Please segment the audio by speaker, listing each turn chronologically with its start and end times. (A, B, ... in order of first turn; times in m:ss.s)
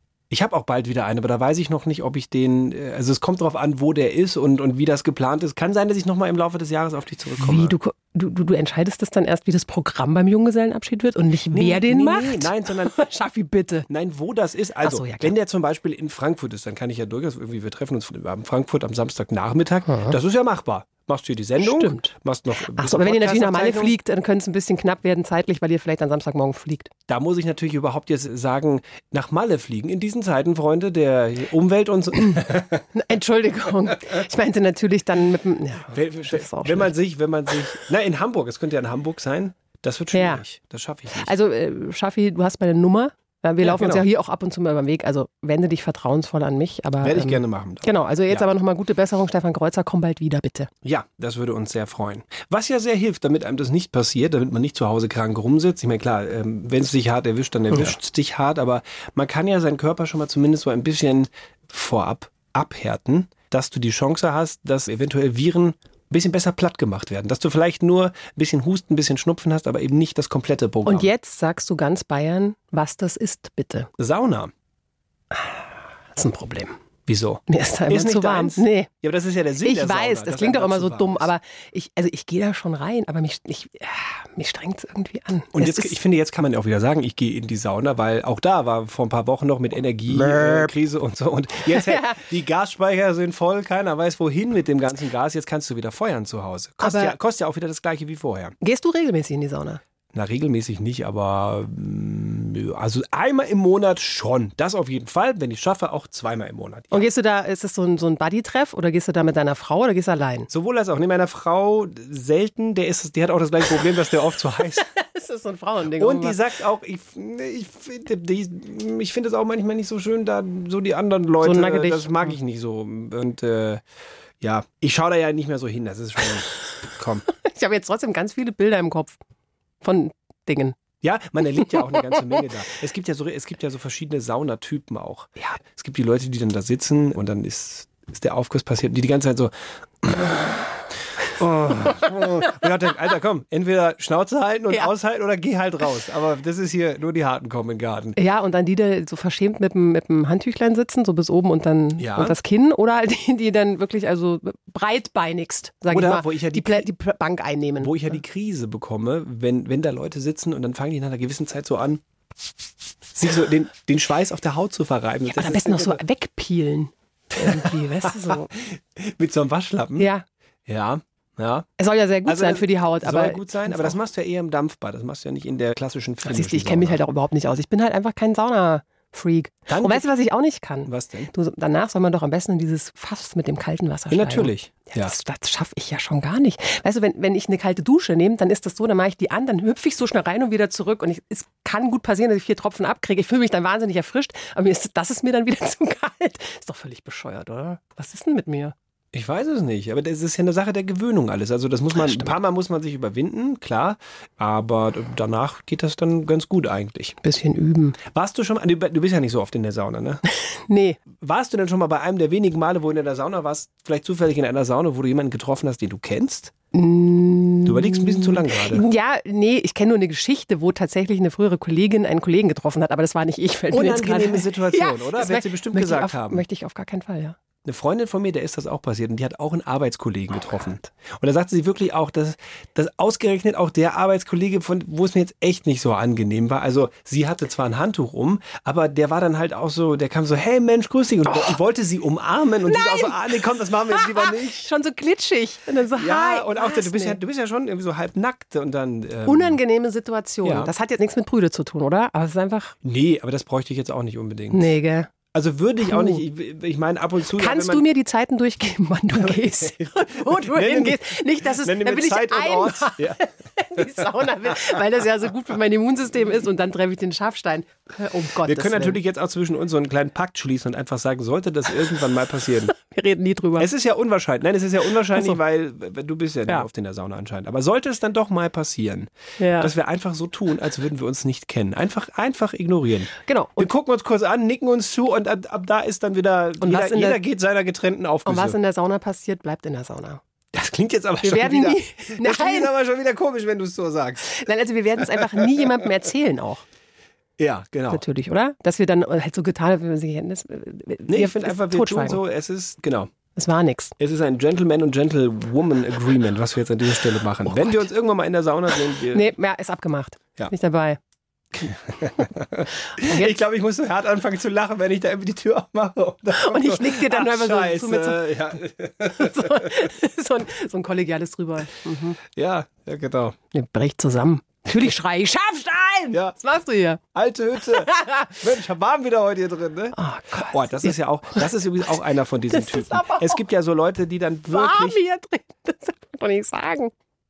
0:00.3-0:07.8 A
0:07.4-0:13.9 B
0:11.5-0:13.0 A
0:13.9-0:24.0 A
0:14.8-0:15.3 B
0:19.9-0:20.2 B
0:21.6-0:22.1 B
0:22.8-0:26.9 B
0:27.1-0:32.8 A
0:32.9-0:36.9 B
0:35.9-0:41.3 A
0:40.1-0:40.4 B
0:41.2-0:50.7 B
0:43.6-0:44.0 A
0:47.0-0:48.4 A
0:50.8-1:11.1 A
0:57.7-0:58.0 B
1:10.8-1:13.9 B
1:14.0-1:14.5 A
1:15.3-1:16.8 B
1:17.1-1:21.3 A
1:17.5-1:18.9 B
1:19.6-1:26.0 B
1:25.5-1:38.6 A
1:30.1-1:30.7 B
1:31.7-1:32.2 B
1:36.8-1:37.2 B
1:38.6-1:39.8 B
1:40.1-1:47.1 A
1:46.9-1:50.5 B
1:50.5-1:54.8 A
1:54.9-1:56.4 B
1:56.0-2:03.8 A
2:01.4-2:02.4 B
2:04.4-2:07.2 A
2:07.3-2:09.2 B
2:09.8-2:10.8 B
2:11.0-2:20.6 A
2:21.3-2:28.2 A
2:28.2-2:38.2 B
2:32.0-2:32.4 A
2:35.9-2:36.9 A
2:37.8-2:42.0 A
2:43.1-2:46.0 A
2:45.3-2:48.5 B
2:47.5-2:50.1 A
2:50.0-2:50.3 B
2:50.7-2:51.7 A
2:51.8-2:54.0 B
2:52.2-2:57.0 A
2:56.2-3:18.7 B
2:59.7-3:00.1 A
3:00.9-3:01.3 A
3:04.1-3:05.1 A
3:19.1-3:27.2 A
3:22.0-3:22.3 B
3:27.2-3:28.0 B
3:28.1-3:30.2 A
3:30.7-3:31.0 B
3:31.2-3:36.5 A
3:36.7-3:47.4 B
3:37.6-3:38.8 A
3:43.7-3:46.4 A
3:47.6-4:04.7 A
4:02.7-4:03.2 B
4:03.9-4:07.2 B
4:05.9-4:09.6 A
4:09.3-4:12.8 B
4:10.4-4:10.7 A
4:12.8-4:14.7 A
4:14.5-4:15.1 B
4:15.3-4:17.9 A
4:15.8-4:16.2 B
4:17.4-4:29.0 B
4:19.2-4:23.2 A
4:28.4-4:32.7 A
4:32.7-4:33.7 B
4:33.6-4:48.6 A
4:39.4-4:39.7 B
4:43.2-4:43.7 B
4:46.6-4:47.2 B
4:48.2-4:50.2 B
4:50.5-4:54.4 A
4:51.2-4:52.7 B
4:54.3-4:56.7 B
4:55.0-4:55.5 A
4:57.4-4:58.0 A
4:57.9-5:02.2 B
5:01.1-5:03.1 A
5:03.4-5:03.9 B
5:04.0-5:09.3 A
5:07.4-5:07.9 B
5:09.1-5:11.0 B
5:11.6-5:19.6 A
5:13.0-5:13.4 B
5:16.4-5:18.3 B
5:19.1-5:22.2 B
5:22.3-5:23.4 A
5:23.5-5:27.0 B
5:27.1-5:35.0 A
5:27.7-5:28.3 B
5:30.0-5:31.4 B
5:32.5-5:33.4 B
5:34.5-5:36.9 B